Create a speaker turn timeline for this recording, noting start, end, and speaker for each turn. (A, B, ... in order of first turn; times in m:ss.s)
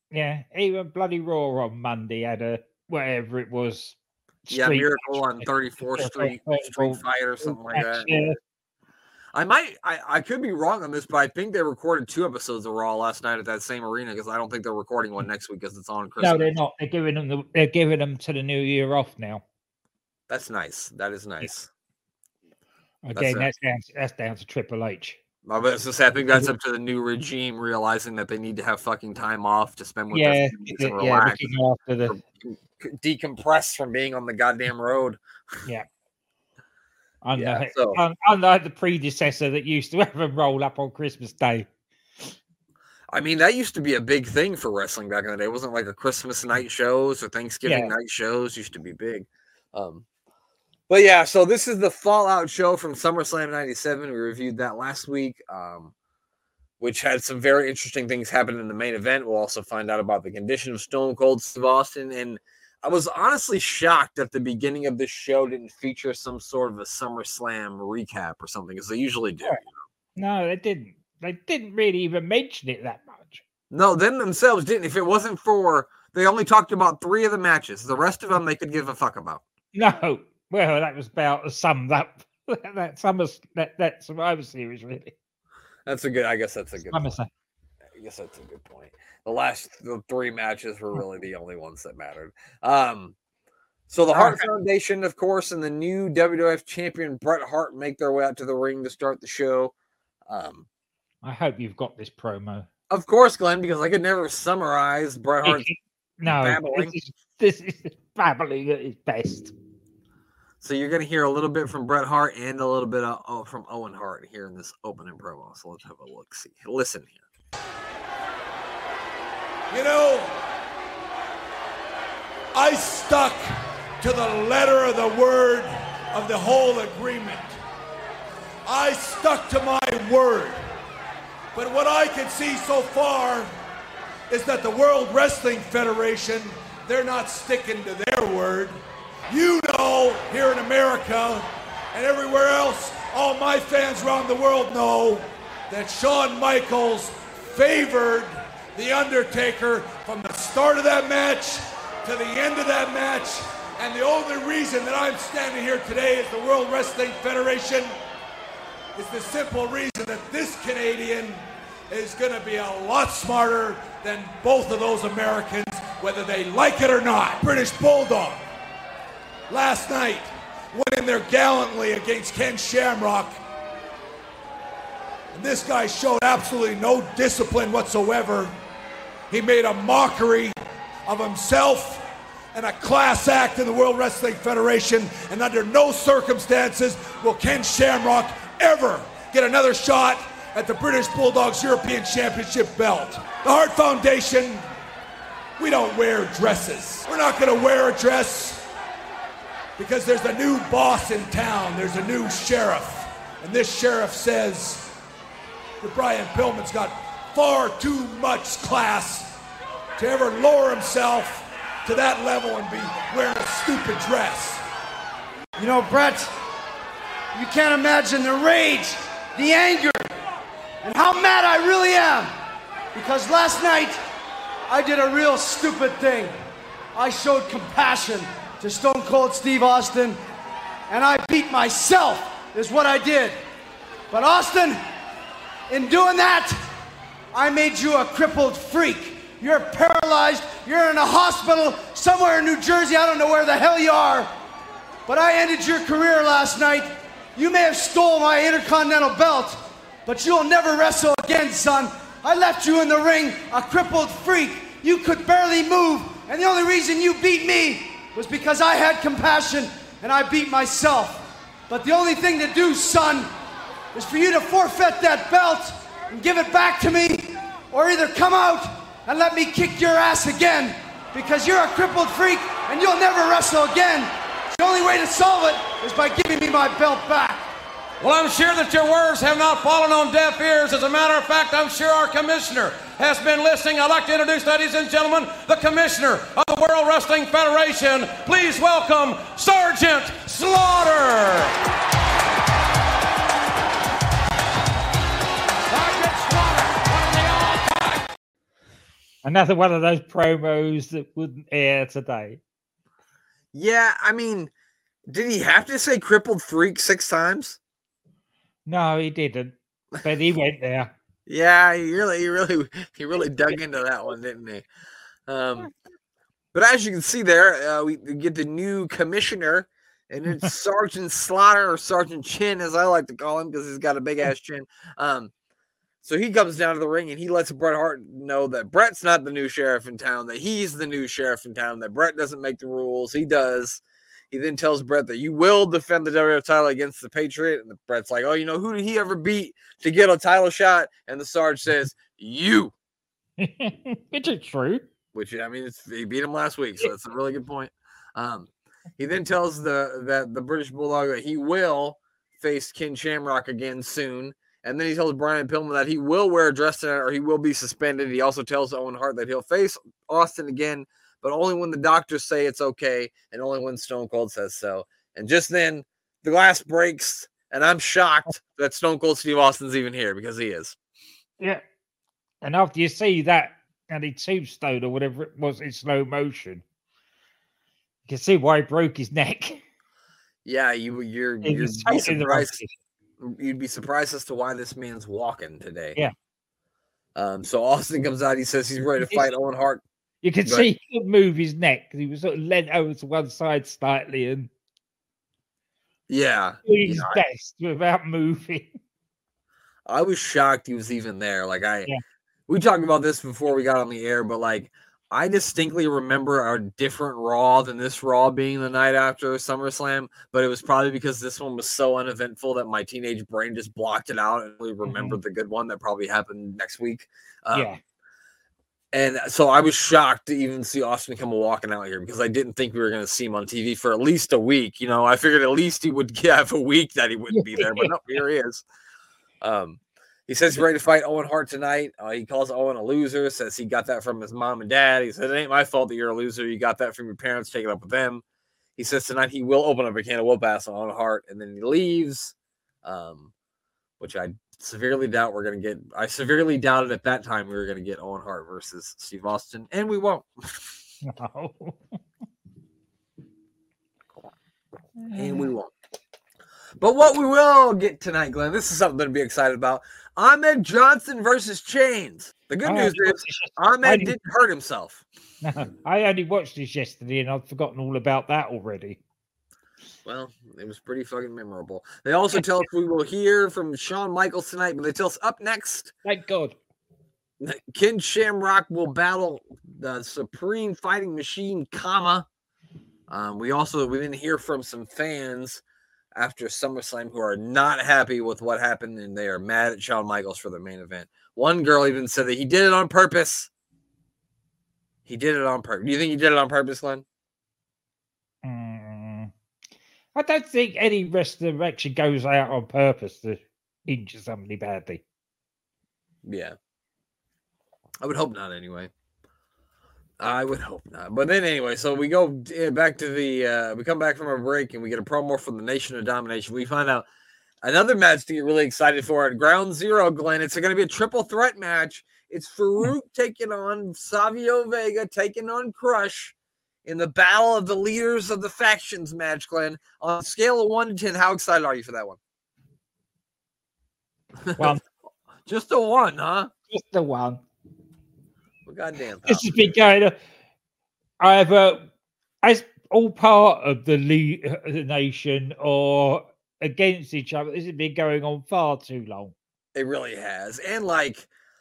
0:00.1-0:04.0 A
0:04.5-0:08.4 A
0:04.5-0:08.2 B
0:09.3-0:16.5 B
0:16.2-0:19.4 A
0:20.3-0:21.7 B
0:23.0-0:25.2 A
0:23.1-0:23.5 B
0:25.4-0:31.5 B
0:30.1-0:32.2 A
0:32.1-0:35.2 B
0:37.2-0:41.7 A
0:37.4-0:38.0 B
0:43.1-0:50.0 B
0:47.6-0:47.9 A
0:50.9-0:55.9 B
0:56.8-1:09.7 B
1:10.2-1:13.4 A
1:13.7-1:19.4 B
1:19.7-1:25.1 A
1:25.8-1:27.1 B
1:26.9-1:27.3 A
1:28.0-1:33.1 B
1:33.9-1:39.7 B
1:34.1-1:34.5 A
1:40.3-1:40.7 B
1:41.2-1:42.7 A
1:42.9-1:45.7 B
1:45.4-1:49.5 A
1:46.2-1:46.9 B
1:50.6-1:57.1 B
1:59.7-2:00.3 C
2:02.5-2:03.4 C
2:04.0-2:07.6 C
2:08.6-2:10.6 C
2:11.5-2:13.5 C
2:14.3-2:18.8 C
2:19.3-2:37.9 C
2:39.0-2:48.4 C
2:49.5-2:53.4 C
2:55.3-2:58.5 C
2:59.3-3:00.5 C
3:01.1-3:14.6 C
3:15.6-3:18.6 C
3:19.8-3:24.9 C
3:25.8-3:29.3 C
3:30.0-3:34.6 C
3:35.6-3:36.3 D
3:37.3-3:40.1 D
3:40.8-3:42.3 D
3:42.9-3:44.0 D
3:44.7-3:46.3 D
3:46.9-3:50.2 D
3:50.9-3:53.4 D
3:54.1-3:54.8 D
3:55.7-3:56.6 D
3:57.3-4:04.3 D
4:05.1-4:23.3 D
4:23.9-4:37.5 D
4:38.0-4:51.5 E
4:55.7-4:58.0 E
4:59.2-5:02.4 A
5:03.5-5:04.5 B
5:05.1-5:07.6 B
5:08.7-5:10.9 A
5:11.3-5:14.6 B
5:15.3-5:15.7 B
5:16.5-5:25.3 B
5:26.0-5:42.7 B
5:43.4-5:44.8 A
5:45.1-6:10.8 B
6:12.4-6:16.6 A
6:18.1-6:19.6 A
6:20.4-6:22.6 B
6:21.4-6:22.7 A
6:23.2-6:26.0 B
6:27.1-6:29.8 B
6:30.2-6:34.5 A
6:36.1-6:37.2 B
6:36.6-6:38.7 A
6:39.8-6:41.9 B
6:42.5-6:57.7 B
6:54.8-6:55.2 A
6:57.5-6:57.8 A
6:58.9-7:08.6 B
7:07.3-7:07.9 A
7:09.4-7:18.2 B
7:18.8-7:23.3 B
7:24.0-7:30.7 B
7:31.0-7:31.9 A
7:35.0-7:35.5 A
7:35.1-7:35.7 B
7:36.8-7:45.0 B
7:42.6-7:44.1 A
7:45.4-7:49.0 A
7:50.0-7:55.9 B
7:56.0-7:56.6 A
7:57.4-8:02.2 B
8:03.1-8:05.6 B
8:06.2-8:13.5 B
8:15.1-8:17.0 B
8:18.4-8:19.3 A
8:20.1-8:25.0 A
8:26.2-8:26.6 B
8:28.0-8:28.9 B
8:30.2-8:37.0 B
8:37.6-8:46.3 B
8:46.8-8:52.2 B
8:54.4-8:54.8 B
8:55.5-8:56.5 B
8:56.7-8:57.4 A
8:58.6-8:59.6 B
8:59.2-9:00.2 A
9:01.2-9:01.8 A
9:02.4-9:09.3 A
9:09.7-9:11.3 B